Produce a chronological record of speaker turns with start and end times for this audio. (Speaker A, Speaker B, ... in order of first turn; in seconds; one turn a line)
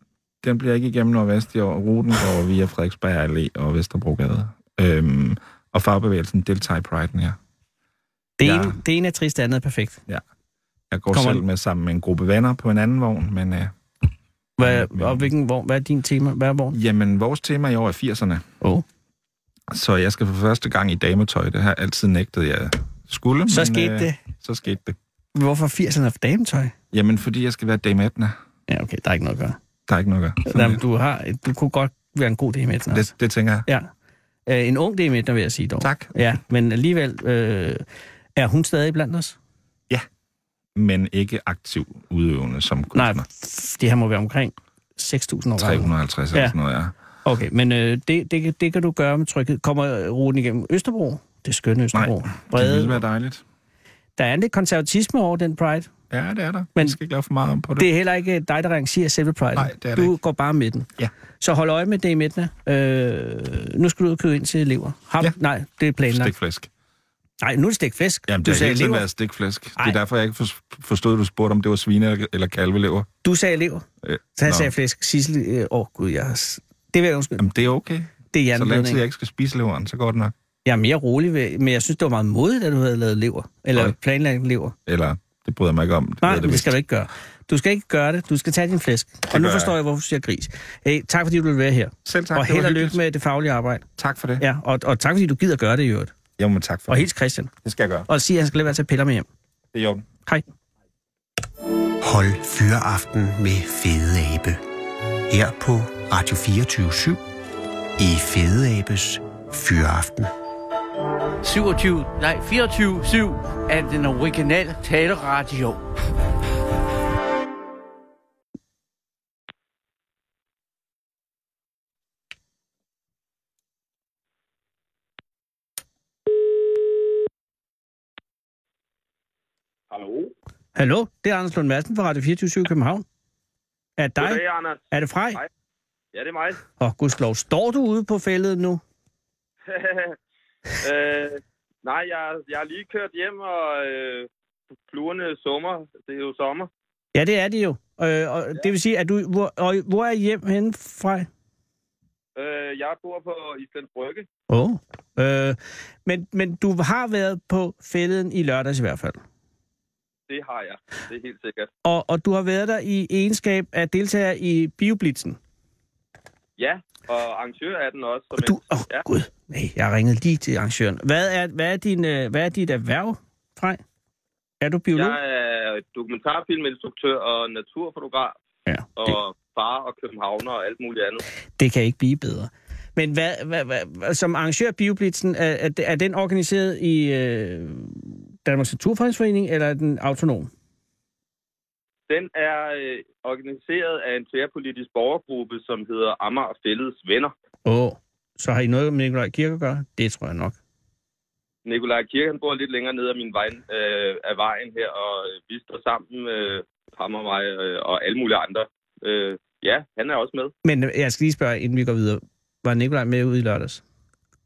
Speaker A: 0.4-7.4
Speaker B: 8.4-10.0
Speaker A: 8.4-8.8
Speaker A: 10.9-13.7
Speaker B: 11.1-11.4
Speaker B: 14.6-16.8
Speaker A: 14.6-15.3
Speaker A: 16.7-18.4
Speaker A: 19.7-25.0
Speaker B: 23.5-24.2
Speaker B: 25.4-26.8
Speaker A: 26.9-28.4
Speaker B: 28.7-29.6
Speaker A: 29.9-30.8
Speaker B: 30.5-33.1
Speaker A: 32.9-33.7
Speaker B: 34.5-37.8
Speaker A: 35.8-36.1
Speaker B: 38.4-39.4
Speaker A: 40.8-43.3
Speaker B: 42.9-46.5
Speaker A: 45.6-46.9
Speaker B: 47.2-53.0
Speaker A: 51.9-53.4
Speaker B: 54.2-55.9
Speaker A: 56.1-57.9
Speaker B: 57.8-60.9
Speaker A: 59.6-60.1
Speaker B: 61.4-66.3
Speaker A: 66.1-66.7
Speaker B: 67.4-69.0
Speaker A: 68.3-73.1
Speaker B: 73.2-77.5
Speaker A: 74.0-74.7
Speaker A: 77.4-80.3
Speaker B: 78.3-79.0
Speaker B: 80.7-84.8
Speaker A: 84.9-86.8
Speaker B: 86.2-93.9
Speaker A: 89.3-89.8
Speaker A: 92.1-93.0
Speaker A: 94.0-94.4
Speaker B: 94.4-96.2
Speaker A: 96.4-97.1
Speaker B: 96.9-97.5
Speaker A: 97.6-98.1
Speaker B: 98.1-99.3
Speaker A: 99.7-100.0
Speaker C: 102.0-104.6
Speaker C: 105.3-107.2
Speaker C: 108.0-110.3
Speaker D: 111.4-115.9
Speaker E: 129.9-130.3
Speaker B: 130.8-133.1
Speaker B: 134.0-135.4
Speaker E: 134.2-135.5
Speaker E: 136.1-136.6
Speaker B: 136.8-138.8
Speaker E: 139.7-140.2
Speaker E: 140.8-144.3
Speaker E: 144.9-146.7
Speaker B: 147.2-151.3
Speaker E: 152.4-154.3
Speaker B: 154.5-159.2
Speaker E: 160.3-161.7
Speaker B: 161.8-165.4
Speaker E: 166.6-169.1
Speaker B: 168.4-173.8
Speaker B: 174.6-175.2
Speaker E: 174.9-178.4
Speaker B: 178.7-179.2
Speaker E: 179.0-181.2
Speaker B: 181.6-190.5
Speaker E: 192.1-197.3
Speaker B: 197.7-200.6
Speaker E: 201.7-210.5
Speaker B: 210.6-213.8